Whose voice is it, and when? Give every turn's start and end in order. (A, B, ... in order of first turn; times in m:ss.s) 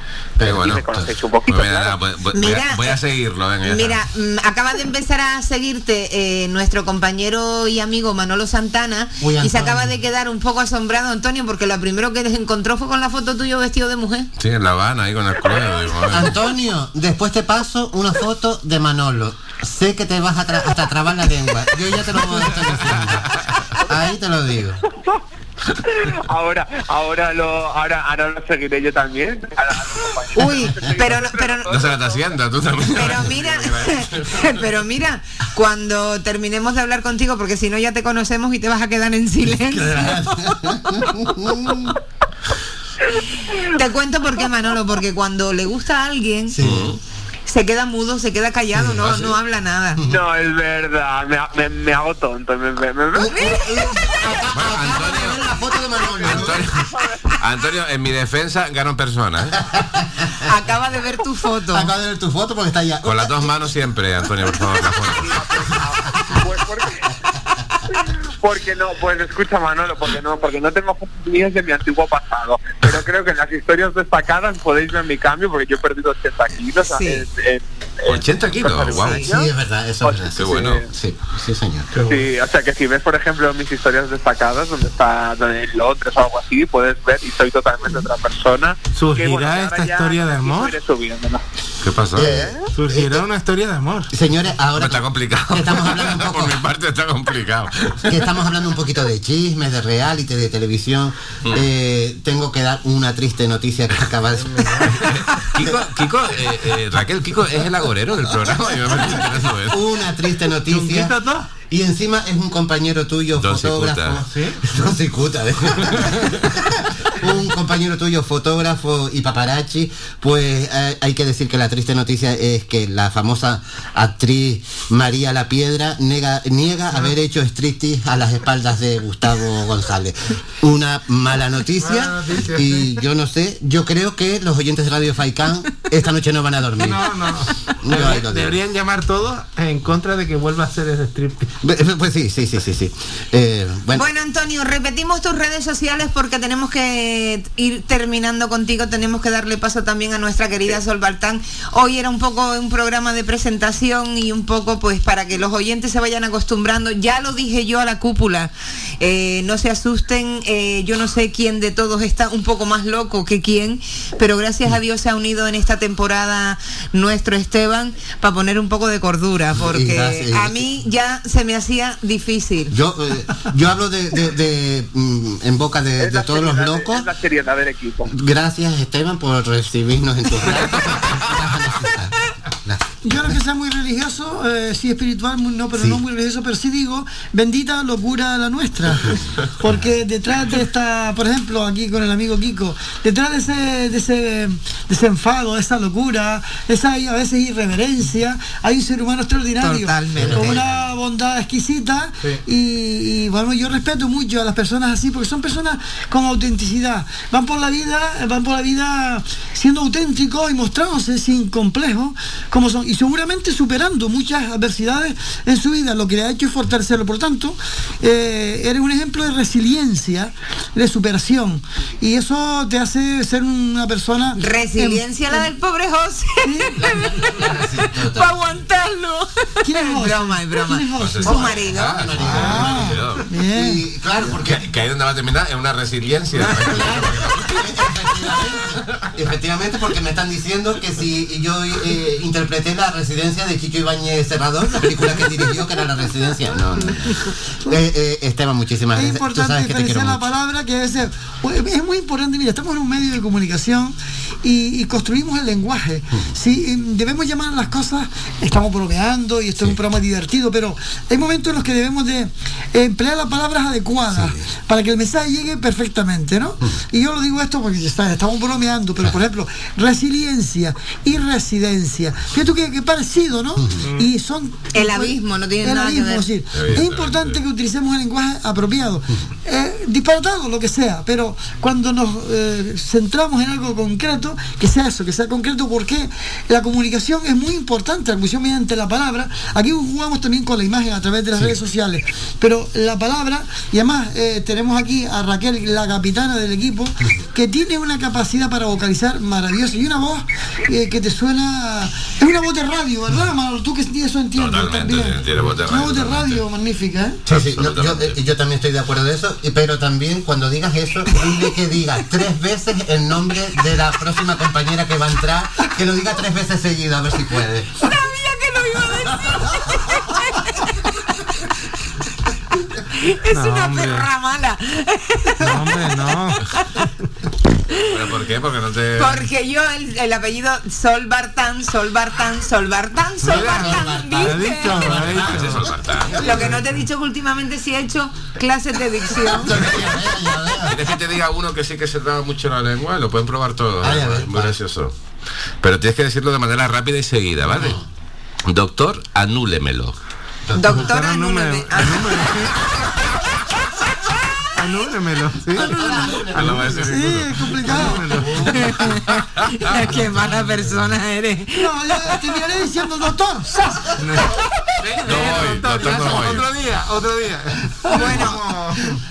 0:00.4-0:00.9 A
0:00.4-0:00.8 B
0:00.6-0:02.0 C
0:01.5-0:04.0 B
0:02.3-0:03.0 D
0:03.6-0:14.3 D
0:09.2-0:10.0 A
0:14.4-0:16.4 B
0:16.1-0:24.8 A
0:23.8-0:24.1 C
0:24.8-0:25.2 C
0:25.8-0:32.2 C
0:30.4-0:31.7 D
0:31.7-0:34.6 B
0:32.9-0:41.1 D
0:39.5-0:42.0 A
0:43.6-0:46.6 D
0:46.5-0:46.9 A
0:46.6-0:47.0 B
0:47.5-0:50.0 D
0:48.7-0:49.3 A
0:50.0-0:53.3 C
0:53.1-0:56.7 A
0:53.3-0:54.2 D
0:54.5-0:55.5 B
0:56.1-0:57.4 C
0:56.2-0:59.6 B
1:00.4-1:01.9 D
1:01.7-1:03.5 A
1:03.0-1:05.4 B
1:05.0-1:07.1 C
1:08.0-1:19.5 C
1:16.8-1:17.2 D
1:18.1-1:19.3 B
1:19.1-1:21.9 A
1:20.0-1:20.8 C
1:20.3-1:20.8 B
1:21.9-1:22.2 E
1:22.0-1:31.4 C
1:28.9-1:30.8 E
1:31.8-1:32.5 B
1:32.1-1:33.2 A
1:32.7-1:34.1 E
1:34.1-1:36.6 A
1:34.8-1:38.2 B
1:38.1-1:45.0 A
1:44.5-1:44.9 E
1:45.1-1:49.8 B
1:48.4-2:17.1 A
1:50.7-1:51.5 E
1:53.4-1:54.2 B
1:54.3-1:54.6 E
2:11.8-2:13.0 E
2:16.8-2:21.5 E
2:17.8-2:18.5 A
2:21.6-2:24.0 A
2:23.9-2:52.7 D
2:49.6-2:50.6 A
2:52.7-2:57.1 A
2:56.0-2:58.1 C
2:58.1-3:02.1 A
3:02.6-3:03.4 A
3:03.0-3:45.5 F
3:19.6-3:20.6 D
3:20.2-3:20.6 A
3:44.4-3:47.1 D
3:46.4-3:46.8 F
3:46.7-3:48.3 A
3:48.1-3:52.0 D
3:49.6-3:51.6 F
3:51.0-3:53.2 B
3:51.8-3:53.0 A
3:52.2-3:53.8 F
3:53.5-3:54.6 A
3:54.4-3:57.6 B
3:56.7-4:10.3 A
4:09.0-5:07.2 F
4:33.8-4:34.1 E
4:34.7-4:36.2 D
4:36.5-4:37.4 B
5:04.3-5:06.4 B
5:07.3-5:08.2 B
5:07.3-5:17.7 A
5:17.8-5:20.5 D
5:23.0-5:26.8 D
5:23.3-5:24.1 E
5:25.4-5:26.4 E
5:27.8-5:29.2 B
5:29.0-5:35.0 D
5:33.2-5:35.6 A
5:33.3-5:35.6 E
5:35.2-5:36.2 B
5:36.2-5:39.7 D
5:39.2-5:40.8 A
5:40.6-5:44.9 B
5:43.8-5:44.5 A
5:45.6-5:47.8 B
5:47.5-5:47.8 A
5:48.4-5:50.0 B
5:50.5-5:50.8 A
5:50.6-5:52.3 D
5:50.7-5:52.6 E
5:54.6-5:56.9 E
5:55.5-5:56.7 A
5:56.3-5:57.9 B
5:56.9-5:58.2 F
5:57.7-5:58.7 E
5:57.8-5:58.6 A
5:58.5-6:01.7 D
6:01.5-6:03.8 F
6:04.0-6:09.0 E
6:05.0-6:06.5 B
6:07.9-6:08.5 D